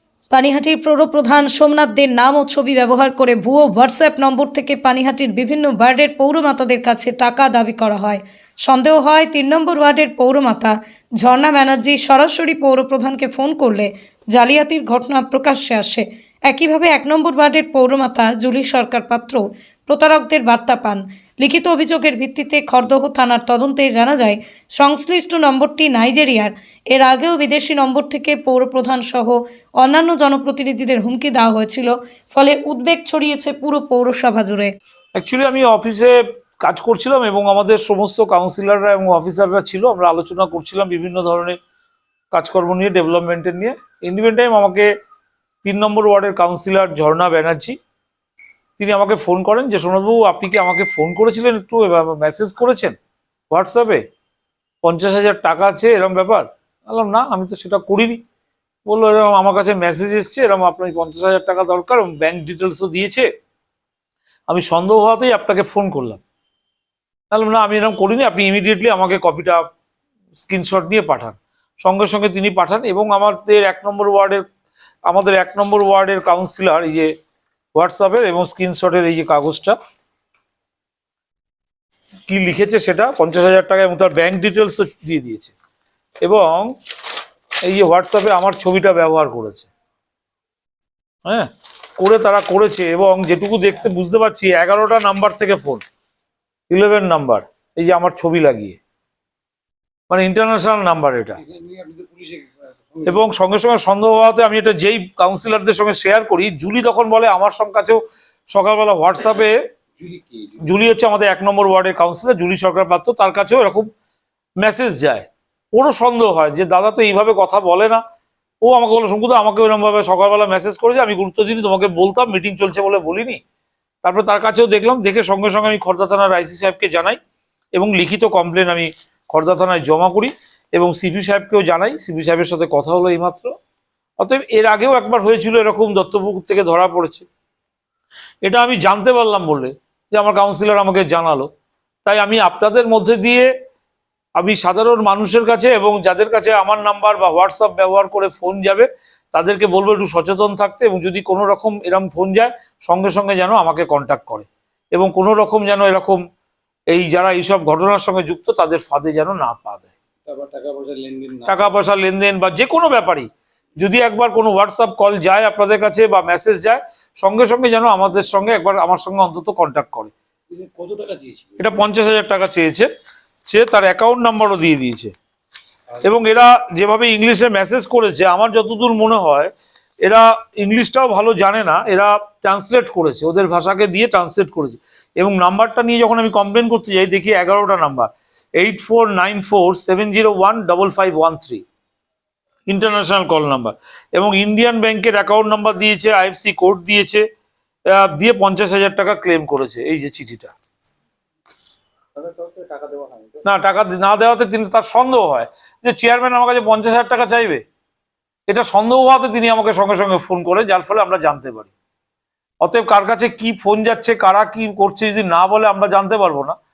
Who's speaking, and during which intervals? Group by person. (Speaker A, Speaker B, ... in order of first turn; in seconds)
Speaker A: 0.3-34.7
Speaker B: 35.1-41.6, 42.3-44.9, 45.6-47.8, 48.8-53.0, 53.5-54.0, 54.8-58.2, 58.9-63.3, 64.5-66.2, 67.3-69.6, 70.4-74.4, 75.1-77.1, 77.8-79.8, 82.3-85.5, 86.2-86.7, 87.7-89.7, 91.3-95.8, 96.7-98.8, 100.1-101.4, 103.0-108.0, 108.5-109.6, 110.7-113.9, 114.6-118.0, 118.6-123.4, 124.0-127.2, 127.8-133.5, 134.2-137.3, 138.4-141.5, 142.1-143.5, 144.4-156.2, 156.9-159.9, 161.5-170.1, 171.6-172.9, 173.5-175.1, 176.0-179.5, 180.0-191.6, 192.7-197.2, 197.9-200.5, 203.4-207.6, 208.5-211.7, 212.6-216.6
Speaker C: 101.4-103.3, 110.0-110.8, 160.3-161.7, 170.5-171.6, 202.2-203.3